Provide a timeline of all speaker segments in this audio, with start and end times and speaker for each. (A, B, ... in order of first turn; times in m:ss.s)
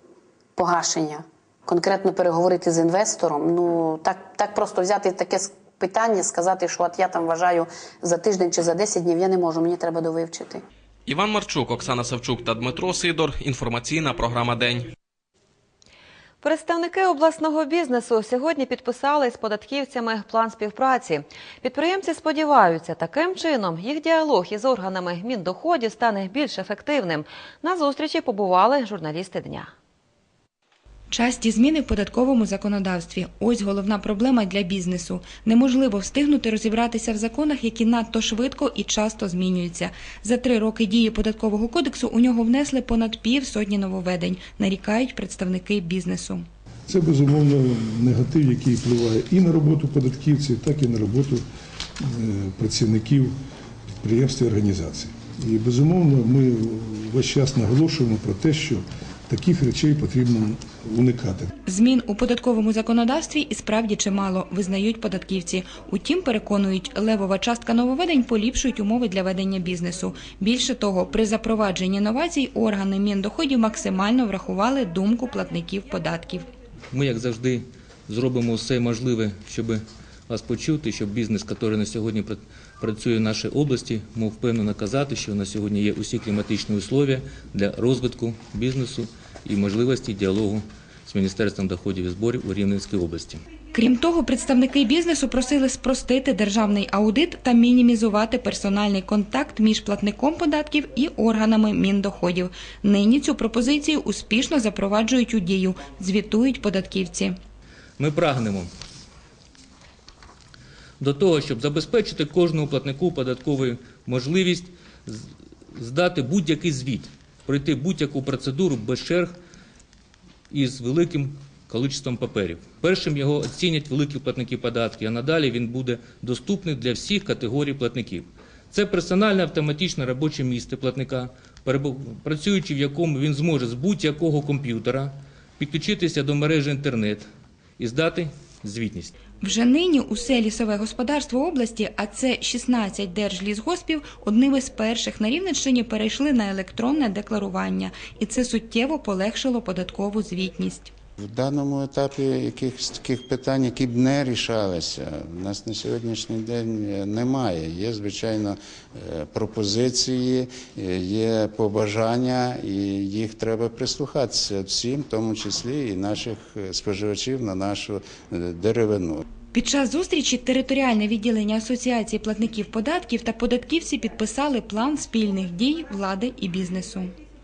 0:00.6-0:10.6 A
0:11.1-0:14.9 B
0:16.4-0:29.7 C
0:31.1-0:46.4 D
0:46.9-0:51.4 E
0:52.0-0:53.3 E
0:54.0-1:01.5 E
1:01.6-1:16.4 D
1:16.9-1:33.4 F
1:33.7-1:47.4 D
1:48.0-1:48.7 F
1:51.0-1:55.2 F
1:55.7-1:59.3 F
2:00.5-2:17.2 F
2:17.8-2:19.1 F
2:19.4-2:30.9 D
2:31.2-2:49.2 G
2:49.5-2:57.1 D